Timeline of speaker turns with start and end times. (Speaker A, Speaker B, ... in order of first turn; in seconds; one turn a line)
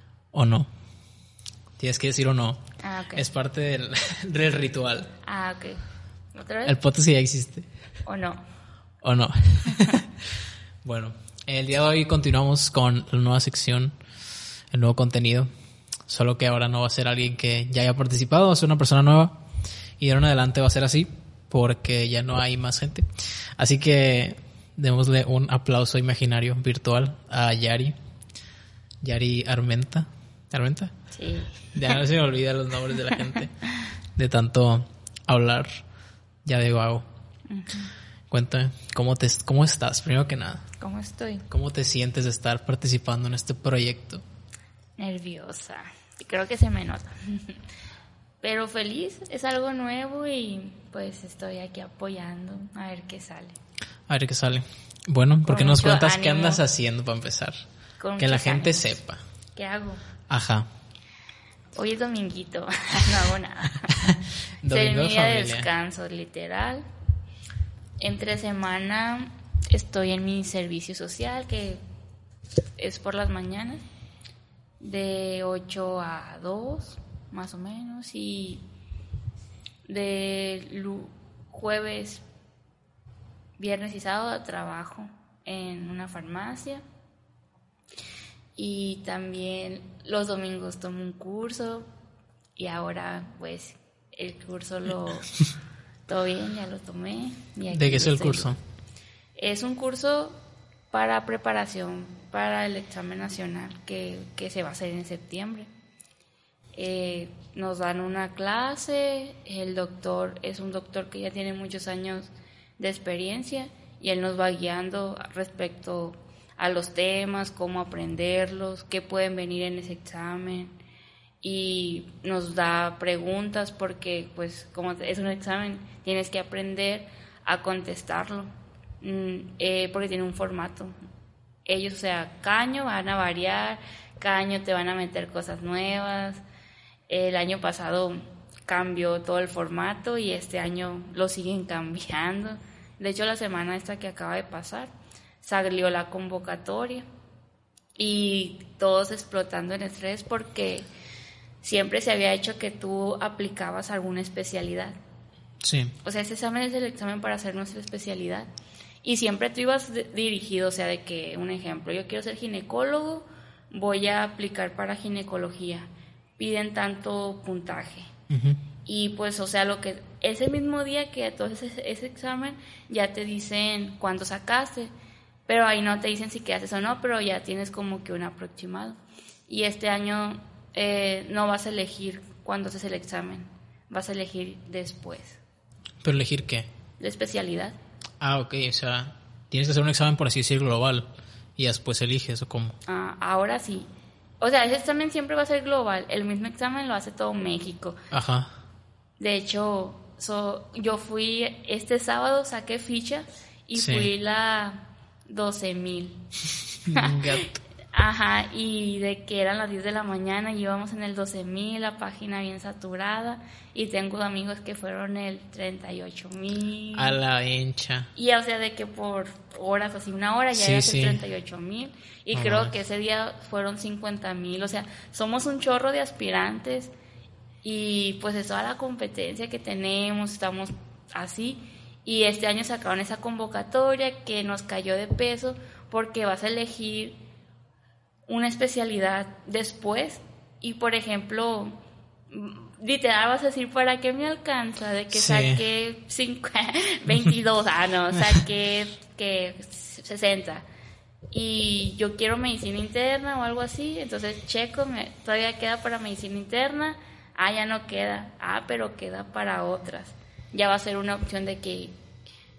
Speaker A: 0.3-0.7
Speaker A: 1.8-2.6
Speaker B: 2.8-3.2
Speaker A: 3.1-5.1
Speaker B: 5.2-5.8
Speaker B: 6.3-6.8
Speaker A: 6.7-7.7
Speaker B: 8.1-8.4
Speaker A: 9.0-10.1
Speaker A: 10.8-13.9
Speaker A: 14.7-15.5
Speaker A: 16.1-19.4
Speaker A: 20.0-27.9
Speaker A: 29.0-30.9
Speaker B: 31.1-32.0
Speaker A: 31.7-33.5
Speaker A: 34.1-35.8
Speaker A: 36.4-37.0
Speaker B: 37.5-37.9
Speaker A: 38.3-40.6
Speaker B: 40.8-41.5
Speaker A: 41.5-44.2
Speaker B: 45.0-47.6
Speaker B: 48.4-53.6
Speaker A: 54.1-57.6
Speaker B: 55.4-56.6
Speaker B: 58.0-58.9
Speaker A: 58.2-59.2
Speaker B: 59.5-60.0
Speaker A: 60.3-60.7
Speaker B: 61.8-64.0
Speaker A: 63.9-65.7
Speaker B: 64.7-66.8
Speaker B: 68.0-71.8
Speaker B: 72.8-73.8
Speaker B: 74.8-78.6
Speaker B: 79.9-82.2
Speaker B: 83.6-86.8
Speaker B: 88.6-91.9
Speaker B: 92.6-95.3
Speaker B: 96.1-98.5
Speaker A: 97.7-98.6
Speaker B: 99.4-100.4
Speaker B: 100.9-105.7
Speaker B: 106.7-120.7
Speaker B: 121.4-128.5
Speaker B: 129.0-130.9
Speaker B: 131.7-136.4
Speaker B: 137.1-144.9
Speaker B: 145.4-147.1
Speaker B: 148.0-150.9
Speaker B: 151.6-154.9
Speaker A: 155.6-155.9
Speaker B: 156.0-158.5
Speaker B: 159.0-168.1
Speaker A: 168.3-168.6
Speaker B: 168.8-174.9
Speaker B: 175.5-185.4
Speaker A: 186.0-186.7
Speaker B: 187.0-187.8
Speaker A: 188.2-192.8
Speaker B: 192.8-193.9
Speaker B: 194.4-198.0
Speaker A: 198.1-198.5
Speaker B: 199.2-206.2
Speaker A: 203.8-204.1
Speaker A: 206.8-207.5
Speaker B: 206.9-217.2
Speaker A: 216.9-218.1
Speaker B: 218.1-226.9
Speaker A: 220.5-221.2
Speaker A: 222.3-222.7
Speaker B: 227.6-237.2
Speaker B: 238.3-241.7
Speaker B: 242.3-250.6
Speaker A: 245.1-245.6
Speaker B: 251.3-261.9